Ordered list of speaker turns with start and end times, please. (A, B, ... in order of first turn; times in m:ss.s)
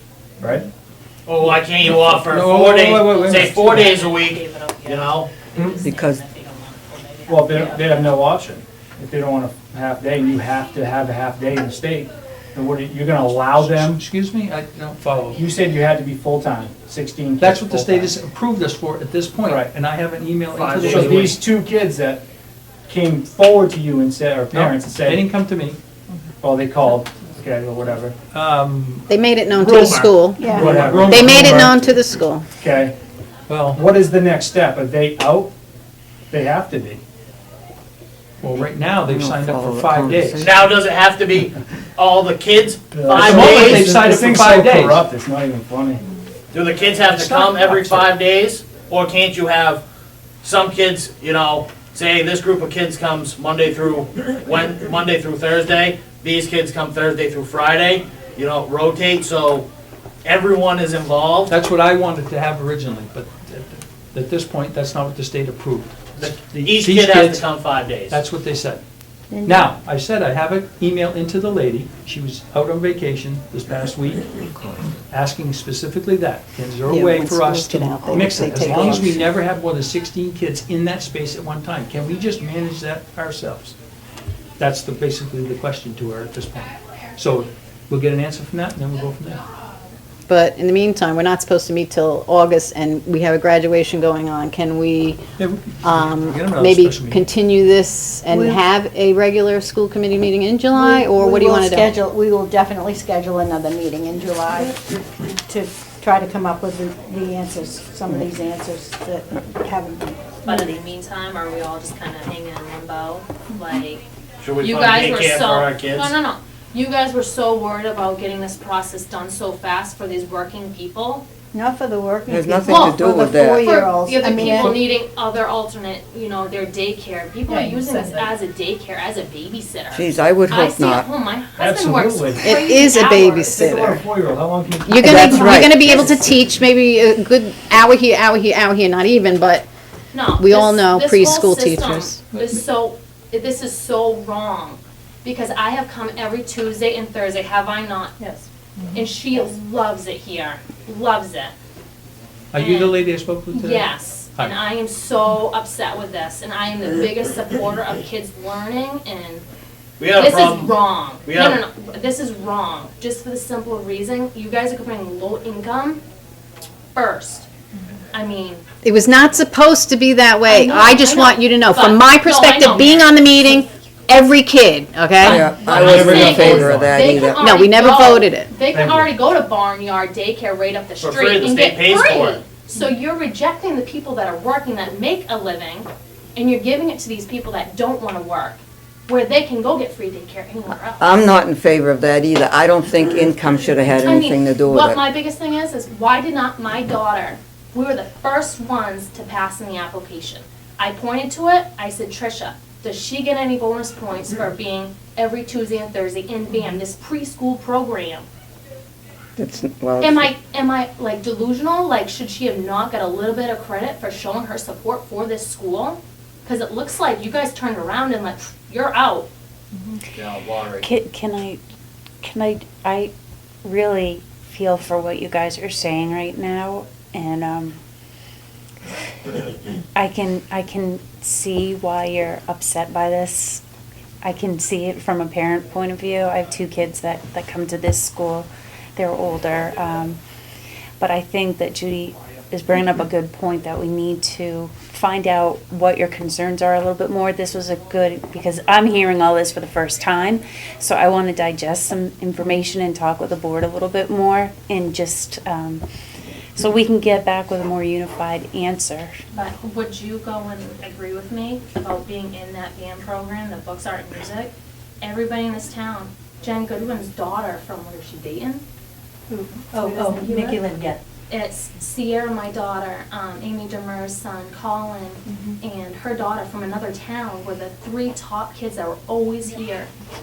0:00.4-0:00.6 A
0:01.2-0:05.4 B
0:01.8-0:04.0 C
0:03.0-0:08.2 D
0:05.8-0:06.2 E
0:07.3-0:14.0 A
0:13.5-0:15.4 C
0:15.3-0:18.1 A
0:17.4-0:21.4 C
0:19.4-0:19.7 A
0:20.5-0:21.4 B
0:20.8-0:22.2 A
0:22.9-0:25.2 A
0:24.5-0:25.8 C
0:26.4-0:28.2 A
0:28.3-0:29.0 C
0:29.1-0:32.4 F
0:29.7-0:30.1 B
0:30.5-0:31.8 C
0:30.5-0:31.7 A
0:30.5-0:30.8 G
0:32.6-0:32.9 A
0:33.5-0:33.8 C
0:33.7-0:35.5 A
0:36.3-0:37.0 A
0:38.4-0:40.6 C
0:39.1-0:40.6 E
0:40.4-0:43.9 B
0:42.9-0:46.0 A
0:43.0-0:45.0 C
0:46.5-0:49.8 B
0:47.1-0:48.0 C
0:50.4-0:59.7 B
1:00.2-1:01.5 B
1:01.5-1:07.5 C
1:06.2-1:08.2 B
1:08.1-1:08.8 C
1:09.4-1:14.3 C
1:15.1-1:23.8 C
1:16.9-1:19.2 F
1:24.6-1:29.4 C
1:30.3-1:35.2 F
1:35.4-1:37.3 C
1:35.8-1:42.0 F
1:38.3-1:38.6 G
1:40.7-1:44.9 G
1:45.5-1:50.6 G
1:50.4-1:54.0 D
1:54.4-1:56.1 B
1:54.6-2:01.2 D
2:01.5-2:04.8 G
2:02.3-2:03.8 E
2:02.6-2:03.0 D
2:03.6-2:13.6 D
2:07.6-2:08.0 G
2:09.9-2:11.1 E
2:11.6-2:12.6 A
2:12.4-2:14.0 F
2:13.5-2:15.6 A
2:14.9-2:19.7 F
2:15.0-2:16.0 E
2:20.1-2:28.2 D
2:20.4-2:22.2 F
2:28.9-2:31.5 D
2:32.5-2:34.6 C
2:32.6-2:33.0 D
2:33.5-2:39.4 D
2:40.0-2:41.6 B
2:40.1-2:46.0 D
2:46.9-2:47.5 D
2:48.1-2:48.6 D
2:48.8-2:55.5 F
2:50.4-2:53.6 D
2:55.2-3:11.1 D
2:55.2-2:57.4 E
2:55.6-2:57.1 A
2:55.8-2:56.6 B
2:57.4-2:58.5 F
2:58.7-2:59.1 A
3:01.0-3:02.4 B
3:11.0-3:15.0 E
3:14.0-3:28.2 D
3:29.4-3:30.3 E
3:30.0-3:39.3 D
3:40.1-3:40.9 B
3:40.8-3:41.6 H
3:42.2-3:43.1 H
3:43.6-3:47.8 H
3:49.9-3:53.6 H
3:54.2-4:00.2 H
4:01.0-4:15.8 H
4:16.6-4:19.2 H
4:19.3-4:28.6 D
4:29.3-4:31.0 G
4:29.7-4:30.6 D
4:31.3-4:39.9 D